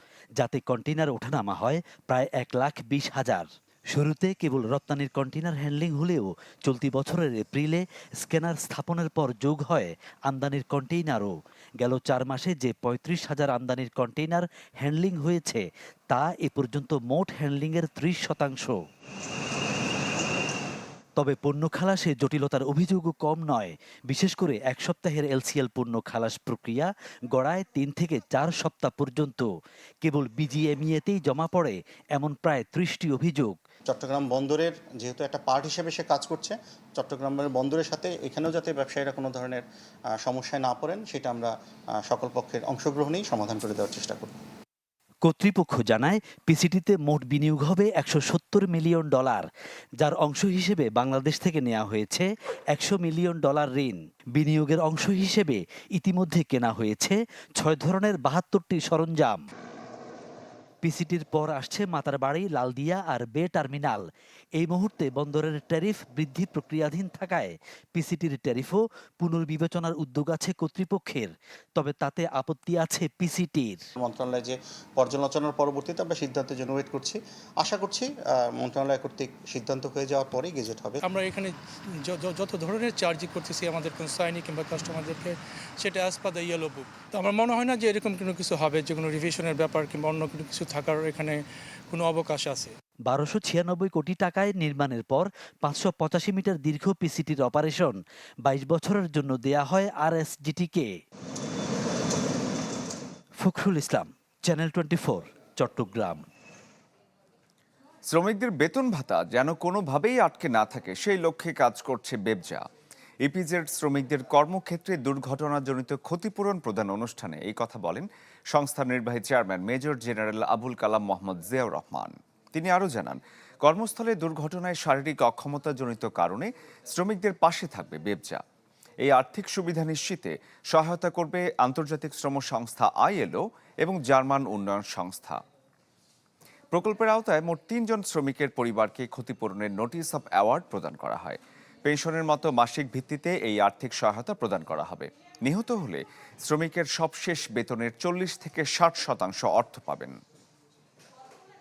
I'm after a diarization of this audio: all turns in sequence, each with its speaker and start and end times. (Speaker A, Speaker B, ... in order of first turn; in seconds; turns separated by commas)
Speaker A: 0.4-18.8, Speaker A: 21.2-29.5, Speaker A: 30.0-33.6, Speaker B: 33.9-39.6, Speaker B: 40.2-44.4, Speaker A: 45.2-49.5, Speaker A: 50.0-59.5, Speaker A: 60.8-73.9, Speaker B: 74.0-81.0, Speaker C: 81.0-92.7, Speaker A: 93.1-100.9, Speaker A: 103.4-106.2, Speaker D: 108.1-112.6, Speaker D: 113.2-128.4, Speaker D: 129.0-135.4, Speaker D: 136.7-150.2